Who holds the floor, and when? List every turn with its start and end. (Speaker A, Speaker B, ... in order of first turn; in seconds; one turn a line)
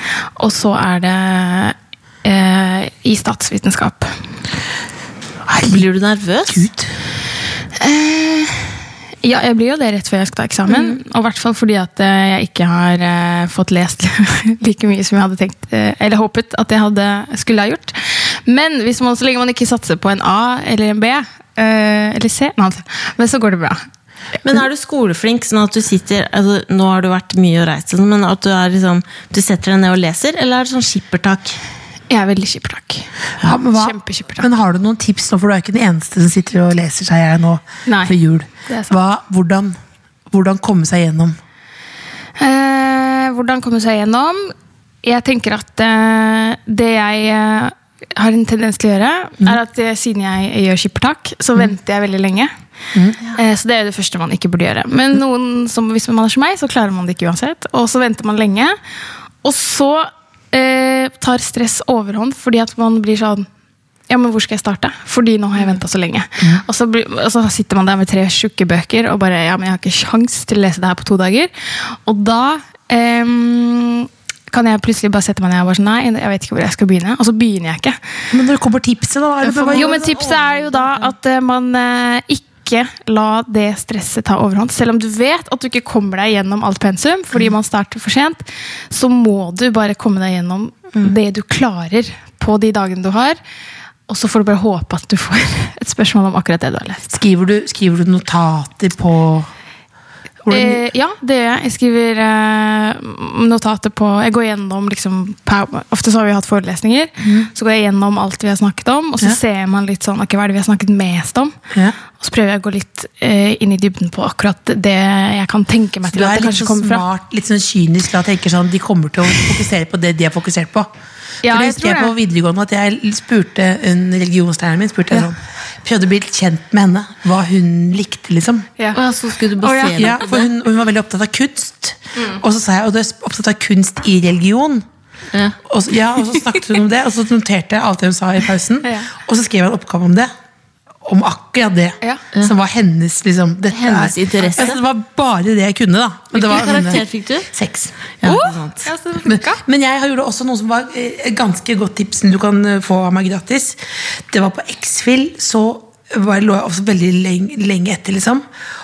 Speaker A: 0.4-4.2
Speaker B: 5.5-5.8
Speaker C: 5.6-6.7
Speaker B: 6.5-6.9
Speaker A: 7.8-23.8
Speaker C: 10.7-11.0
Speaker C: 24.4-31.6
Speaker A: 32.1-34.5
Speaker B: 33.4-39.8
Speaker A: 37.9-38.1
Speaker A: 38.7-39.0
Speaker B: 40.3-41.4
Speaker A: 42.4-52.5
Speaker A: 53.3-58.8
Speaker A: 59.4-63.5
Speaker A: 64.1-78.0
Speaker B: 78.3-80.1
Speaker C: 79.4-81.1
Speaker A: 79.6-93.4
Speaker A: 94.1-97.2
Speaker B: 97.1-99.5
Speaker B: 100.4-100.8
Speaker A: 100.5-111.6
Speaker B: 107.2-107.5
Speaker A: 112.2-117.0
Speaker B: 116.1-120.9
Speaker A: 121.4-122.1
Speaker B: 121.4-128.7
Speaker C: 128.9-130.5
Speaker A: 129.6-130.2
Speaker B: 129.9-134.8
Speaker B: 135.6-140.3
Speaker A: 138.8-139.1
Speaker B: 141.0-147.9
Speaker C: 143.7-144.8
Speaker C: 146.3-147.5
Speaker C: 148.2-148.9
Speaker A: 148.2-149.6
Speaker B: 149.2-158.4